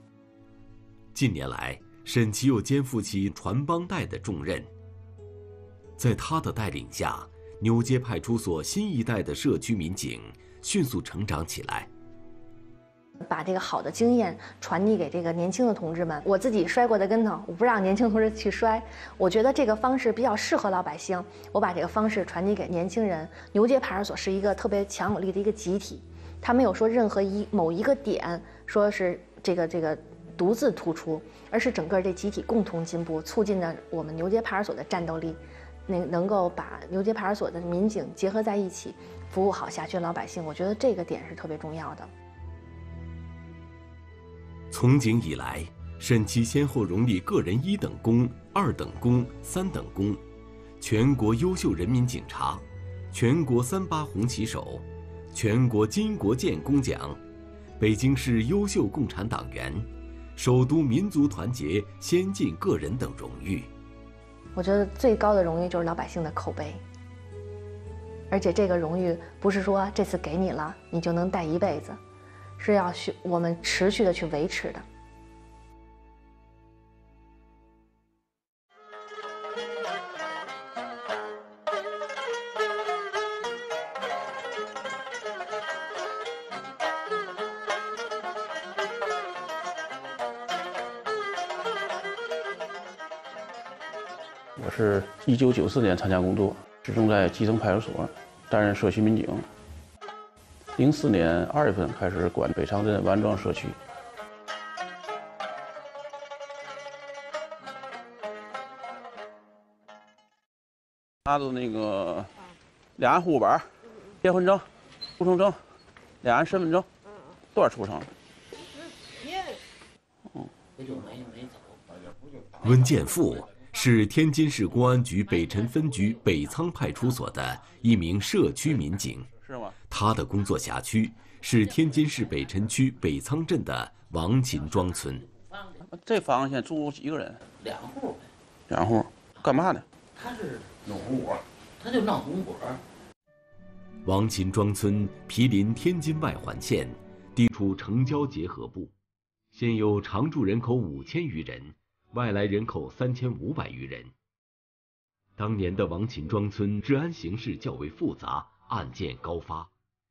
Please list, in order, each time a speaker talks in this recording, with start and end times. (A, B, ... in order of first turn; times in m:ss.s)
0:01.1-0:04.7 A
0:06.0-0:11.9 A
0:13.2-0:42.1 B
0:44.7-0:50.2 A
0:50.8-0:57.2 A
0:57.8-1:03.7 A
1:04.5-1:06.8 B
1:08.3-1:12.0 B
1:12.6-1:14.8 B
1:34.6-1:39.5 C
1:40.8-1:43.8 C
1:51.3-1:52.3 C
1:53.0-1:53.6 C
1:54.2-1:54.6 C
1:55.2-1:55.6 C
1:56.2-1:56.8 C
1:57.5-1:58.1 C
2:00.8-2:01.7 D
2:02.6-2:09.3 A
2:09.4-2:09.7 C
2:09.9-2:15.2 A
2:15.9-2:17.4 C
2:17.5-2:18.3 D
2:18.7-2:19.8 C
2:20.1-2:22.8 D
2:24.0-2:28.9 A
2:29.5-2:34.1 A
2:35.4-2:39.7 A